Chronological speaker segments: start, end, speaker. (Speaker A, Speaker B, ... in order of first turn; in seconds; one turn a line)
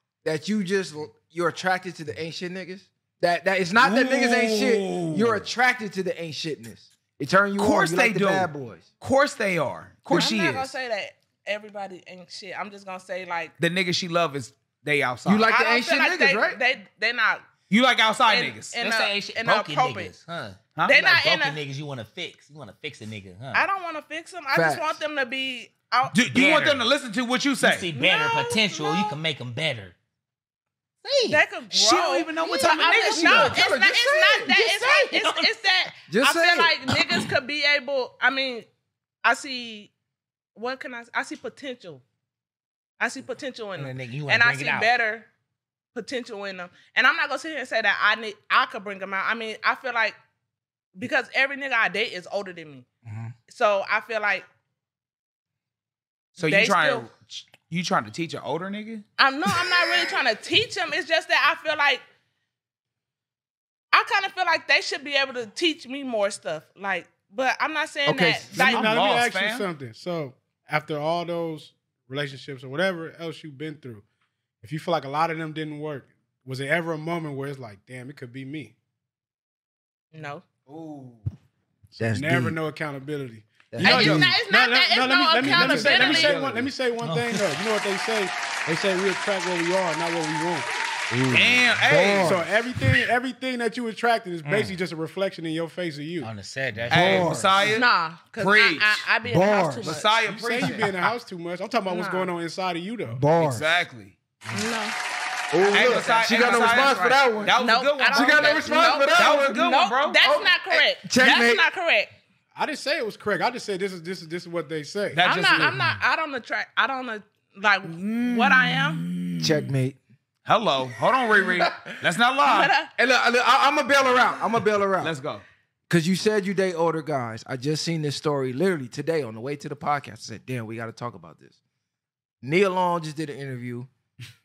Speaker A: 0.2-8.8
Speaker B: 3.8-5.5
Speaker B: 7.6-10.7
Speaker C: 10.1-13.5
Speaker B: 13.6-15.5
Speaker A: 15.2-16.6
Speaker C: 15.5-17.4
Speaker B: 17.7-18.8
Speaker C: 18.3-20.1
Speaker D: 18.8-23.6
Speaker C: 20.8-21.6
Speaker C: 23.5-26.1
Speaker A: 24.5-25.0
Speaker B: 26.1-27.9
Speaker D: 26.3-26.8
Speaker D: 27.6-29.9
Speaker C: 27.9-29.1
Speaker D: 31.0-31.4
Speaker C: 31.3-38.6
Speaker B: 31.7-33.6
Speaker A: 33.0-34.5
Speaker D: 34.5-35.9
Speaker A: 36.1-36.8
Speaker D: 36.9-37.3
Speaker C: 39.2-39.9
Speaker C: 40.5-42.0
Speaker C: 43.0-45.3
Speaker D: 43.8-44.9
Speaker C: 45.9-50.1
Speaker C: 51.0-52.9
Speaker D: 53.0-53.3
Speaker C: 53.5-54.5
Speaker B: 56.4-59.0
Speaker C: 56.4-57.0
Speaker C: 59.2-62.0
Speaker C: 63.9-68.9
Speaker A: 68.0-68.7
Speaker B: 68.5-69.7
Speaker E: 68.5-74.0
Speaker E: 74.6-78.7
Speaker C: 80.1-80.4
Speaker E: 81.9-90.7
Speaker A: 82.0-82.5
Speaker A: 83.7-84.3
Speaker C: 83.8-86.4
Speaker B: 83.9-84.3
Speaker B: 85.4-86.7
Speaker D: 87.0-87.5
Speaker A: 91.1-92.4
Speaker B: 91.3-92.4
Speaker E: 92.2-96.3
Speaker D: 94.4-94.8
Speaker D: 96.2-97.4
Speaker A: 96.9-97.6
Speaker B: 96.9-99.1
Speaker C: 97.7-100.1
Speaker A: 99.2-99.9
Speaker B: 99.8-100.9
Speaker E: 100.1-103.2
Speaker C: 101.9-102.3
Speaker A: 103.1-103.8
Speaker B: 103.3-104.2
Speaker C: 104.5-104.9
Speaker A: 105.5-107.5
Speaker B: 105.7-110.2
Speaker C: 105.7-107.0
Speaker C: 107.6-112.1
Speaker A: 108.1-109.6
Speaker A: 110.2-111.7
Speaker E: 112.5-115.2
Speaker B: 115.1-115.8
Speaker C: 115.2-119.0
Speaker B: 117.8-119.7
Speaker A: 119.4-120.0
Speaker B: 120.5-122.7
Speaker A: 121.4-121.9
Speaker C: 122.4-122.9
Speaker A: 123.0-125.1
Speaker B: 125.0-125.4
Speaker A: 125.9-131.5
Speaker A: 132.4-133.9